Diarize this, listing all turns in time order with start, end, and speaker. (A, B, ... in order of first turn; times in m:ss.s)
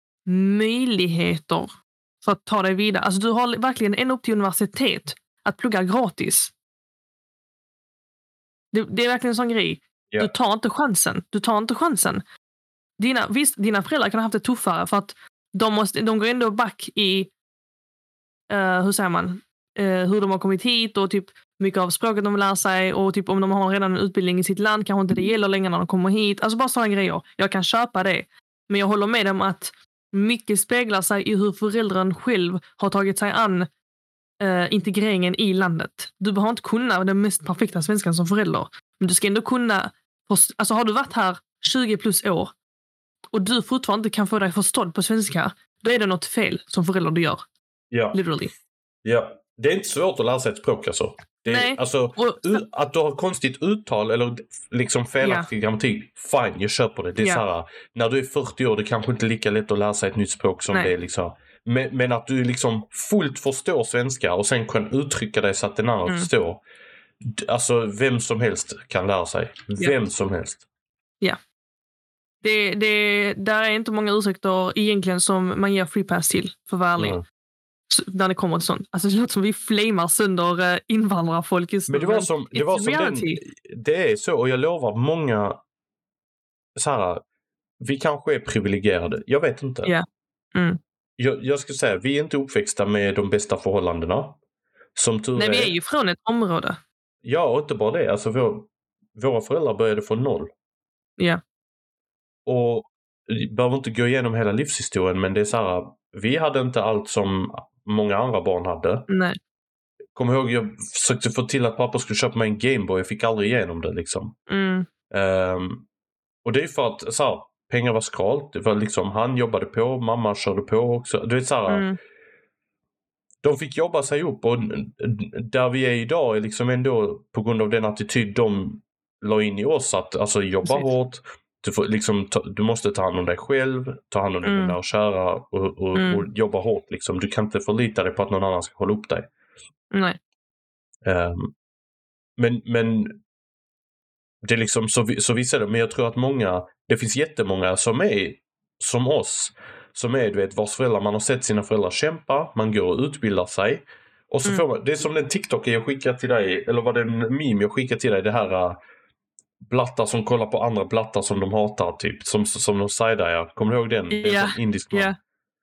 0:00.3-0:06.5 A
0:08.7-0:12.2 A
0:13.0-0:17.3 A
0:18.5-0:33.7 A
0:34.4-0:42.5 A
0:43.3-0:47.4 A
0:47.9-0:48.2 B
0:48.1-0:48.5 A
0:49.0-1:06.6 B
0:51.5-0:52.6 A
0:55.2-0:55.5 A
0:57.2-0:57.4 A
1:07.2-1:10.6 B
1:12.4-1:17.2 A
1:17.0-1:17.2 B
1:17.9-1:23.4 A
1:21.9-1:25.6 B
1:26.8-1:27.2 B
1:27.8-1:29.9 B
1:29.8-1:30.8 A
1:31.2-1:34.4 B
1:35.0-1:35.7 B
1:35.4-1:36.8 A
1:37.2-1:40.5 B
1:42.5-1:49.1 B
1:49.1-1:49.4 A
1:50.2-1:54.4 B
1:54.5-1:54.9 A
1:55.1-1:55.9 B
1:56.4-2:01.9 B
2:01.7-2:02.0 A
2:03.4-2:19.3 B
2:10.6-2:10.9 A
2:14.4-2:14.8 A
2:16.0-2:16.2 A
2:19.9-2:20.2 A
2:21.0-2:21.5 B
2:22.4-2:23.2 B
2:24.4-2:38.8 B
2:39.6-2:45.1 B
2:44.1-2:45.2 A